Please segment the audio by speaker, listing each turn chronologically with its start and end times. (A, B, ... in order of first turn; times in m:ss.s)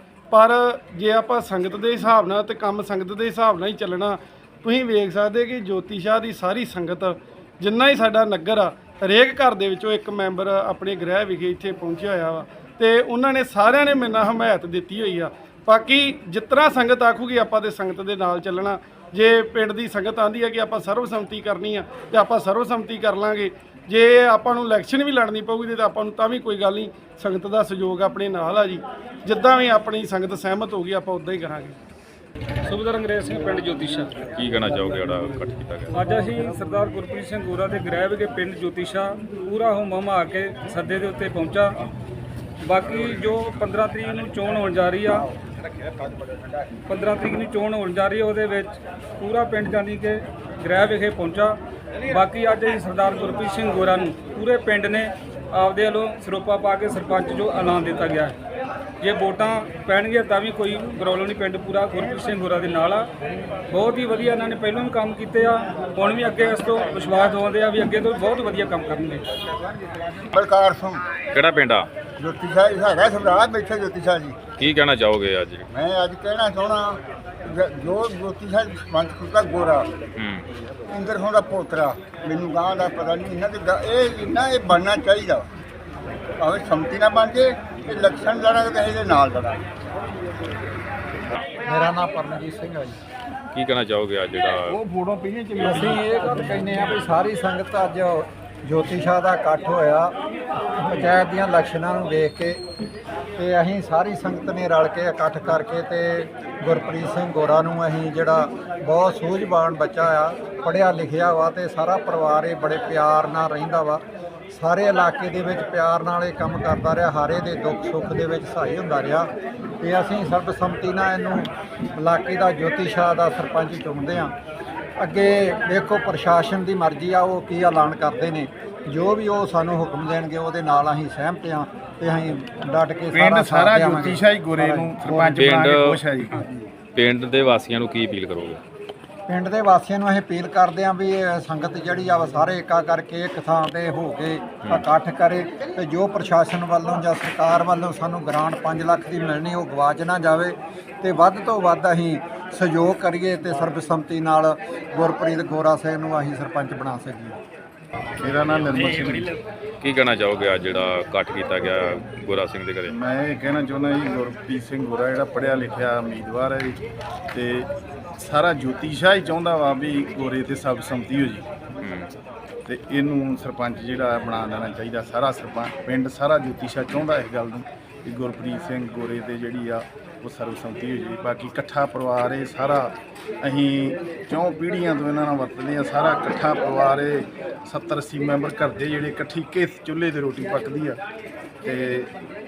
0:00.3-0:31.8 A
0:32.6-0:34.3 B
0:34.3-0:35.9 C
0:35.9-0:41.8 B
0:42.6-0:45.3 B
0:46.9-0:58.4 B
0:59.0-1:03.1 B
1:03.7-1:09.3 B
1:09.8-1:11.1 D
1:11.3-1:11.9 C
1:12.2-1:14.4 D
1:14.6-1:15.7 C
1:15.7-1:19.9 D
1:20.2-1:20.4 C
1:20.9-1:25.5 D
1:26.4-1:29.7 D
1:31.6-1:33.0 E
1:33.5-1:34.8 C
1:34.7-1:36.0 F
1:35.6-1:40.1 E
1:40.8-1:42.6 E
1:43.4-1:59.3 E
1:59.8-2:04.3 E
2:05.0-2:15.4 E
2:13.1-2:16.4 F
2:15.4-2:16.0 C
2:16.9-2:18.6 C
2:19.3-2:37.4 E
2:38.2-2:39.3 F
2:39.8-2:43.0 C
2:42.9-2:46.8 F
2:47.3-2:51.4 F
2:51.8-2:52.1 C
2:52.7-3:11.0 F
3:11.6-3:12.1 F